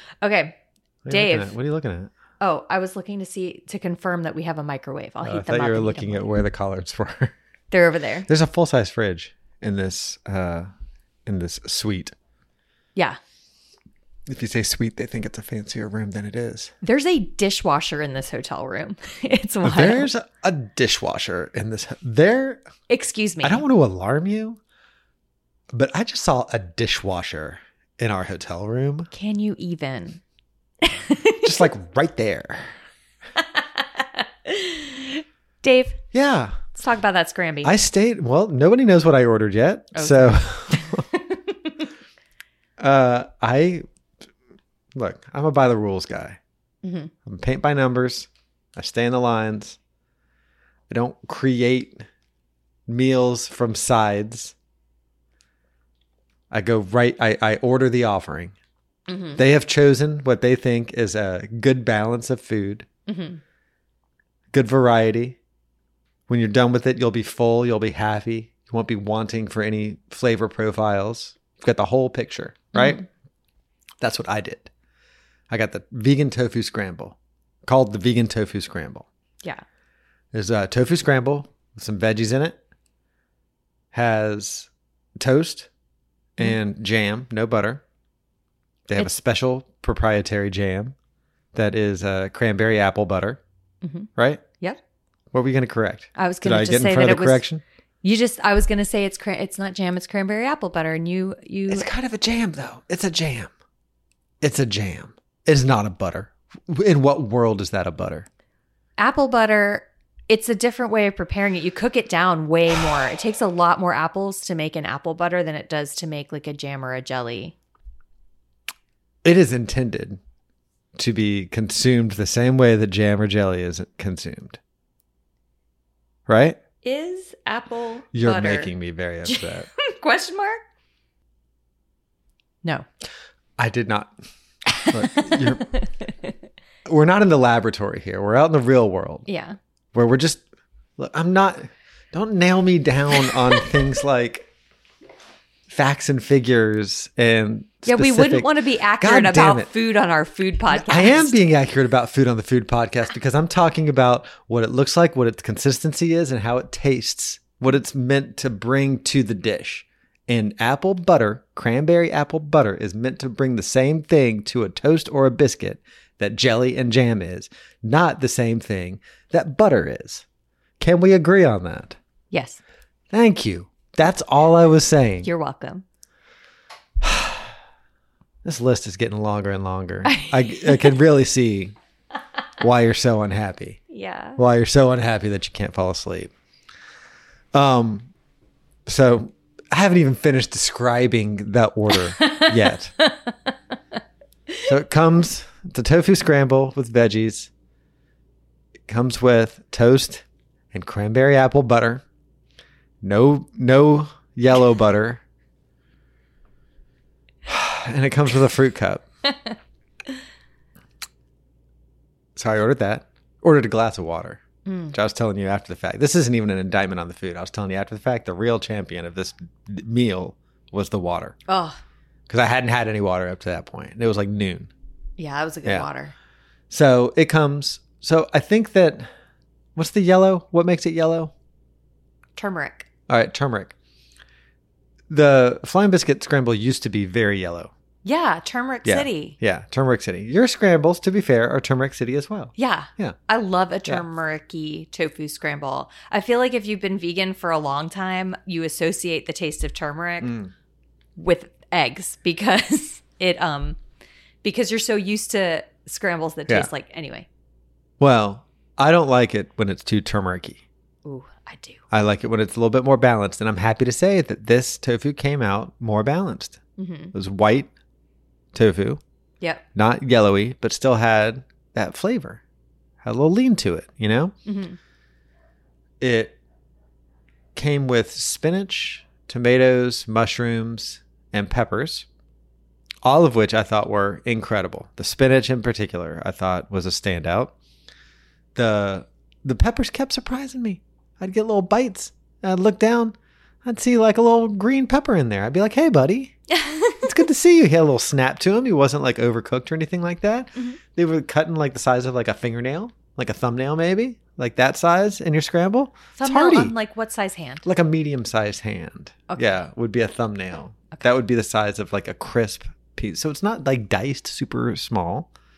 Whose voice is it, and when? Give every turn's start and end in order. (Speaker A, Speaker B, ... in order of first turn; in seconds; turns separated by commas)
Speaker A: 0.2-0.6, Speaker B: 1.0-2.1, Speaker A: 1.1-1.5, Speaker A: 2.4-6.3, Speaker B: 5.2-7.3, Speaker A: 7.7-8.3, Speaker B: 8.3-10.7, Speaker B: 11.3-12.1, Speaker B: 14.3-16.7, Speaker A: 16.8-20.1, Speaker B: 19.6-22.6, Speaker A: 22.9-23.6, Speaker B: 23.4-24.6, Speaker B: 25.7-29.1, Speaker A: 29.1-30.2, Speaker A: 30.8-31.7, Speaker B: 31.4-32.7, Speaker A: 33.4-36.0, Speaker B: 36.1-36.6, Speaker A: 36.8-37.7, Speaker B: 37.6-41.1, Speaker A: 40.0-41.8, Speaker B: 42.8-43.9, Speaker B: 44.9-46.4, Speaker A: 46.8-47.1, Speaker B: 47.2-49.8, Speaker B: 50.9-52.1, Speaker B: 52.9-54.5, Speaker B: 56.5-58.5, Speaker A: 59.1-59.4, Speaker B: 59.4-62.9, Speaker A: 63.1-63.4, Speaker B: 64.5-65.4, Speaker B: 66.3-73.0, Speaker A: 72.7-73.1, Speaker B: 74.0-74.7, Speaker B: 75.5-79.1, Speaker B: 80.3-82.6, Speaker B: 83.9-85.7, Speaker B: 86.4-87.8, Speaker B: 88.9-91.0, Speaker B: 91.5-93.4, Speaker A: 93.8-94.8, Speaker B: 94.2-94.4, Speaker B: 95.3-97.6, Speaker A: 96.2-97.4, Speaker A: 98.0-101.9, Speaker B: 101.7-103.5, Speaker B: 104.4-108.3, Speaker A: 109.0-117.6, Speaker B: 119.2-120.2, Speaker B: 121.0-124.6, Speaker B: 126.3-126.6, Speaker A: 126.8-128.7, Speaker B: 128.1-129.7, Speaker A: 129.3-130.6, Speaker B: 133.6-134.2, Speaker A: 134.8-136.3, Speaker B: 134.9-135.7, Speaker B: 136.9-139.3, Speaker A: 139.3-139.6, Speaker B: 139.9-140.4, Speaker B: 141.0-144.5, Speaker B: 145.7-149.7, Speaker A: 147.9-151.4, Speaker B: 150.7-170.2, Speaker B: 170.8-172.0, Speaker A: 172.3-172.6, Speaker B: 173.1-175.3, Speaker A: 175.2-175.8, Speaker B: 177.0-177.5, Speaker B: 178.4-181.8, Speaker A: 180.1-181.0, Speaker B: 182.6-183.8, Speaker A: 183.9-184.4, Speaker B: 184.4-186.3, Speaker B: 187.5-188.1, Speaker B: 188.9-192.9, Speaker A: 192.2-193.3, Speaker B: 194.7-197.5, Speaker B: 198.9-202.0, Speaker B: 203.0-205.2, Speaker B: 207.5-209.0, Speaker B: 212.4-214.4, Speaker A: 214.7-214.9, Speaker B: 214.9-221.4, Speaker A: 221.5-221.8, Speaker B: 222.3-224.7, Speaker A: 225.2-226.1, Speaker B: 226.7-229.1, Speaker B: 229.8-231.3, Speaker A: 232.4-232.9, Speaker B: 233.1-233.8, Speaker B: 235.1-237.7, Speaker A: 238.0-239.4, Speaker B: 238.8-243.2, Speaker A: 242.6-250.4, Speaker B: 250.2-250.5, Speaker A: 251.2-253.8, Speaker A: 254.4-257.3, Speaker B: 258.0-260.6, Speaker A: 261.1-261.8, Speaker B: 261.9-266.6, Speaker A: 266.8-267.1, Speaker B: 267.1-267.7, Speaker B: 268.5-269.0, Speaker B: 269.8-272.4, Speaker B: 273.0-274.3, Speaker A: 274.5-274.8, Speaker B: 276.0-276.4, Speaker B: 277.6-282.1, Speaker B: 283.0-287.6, Speaker B: 288.6-296.4, Speaker A: 296.5-297.1, Speaker B: 297.0-306.8, Speaker A: 306.2-307.6, Speaker B: 307.6-315.3, Speaker A: 309.3-309.6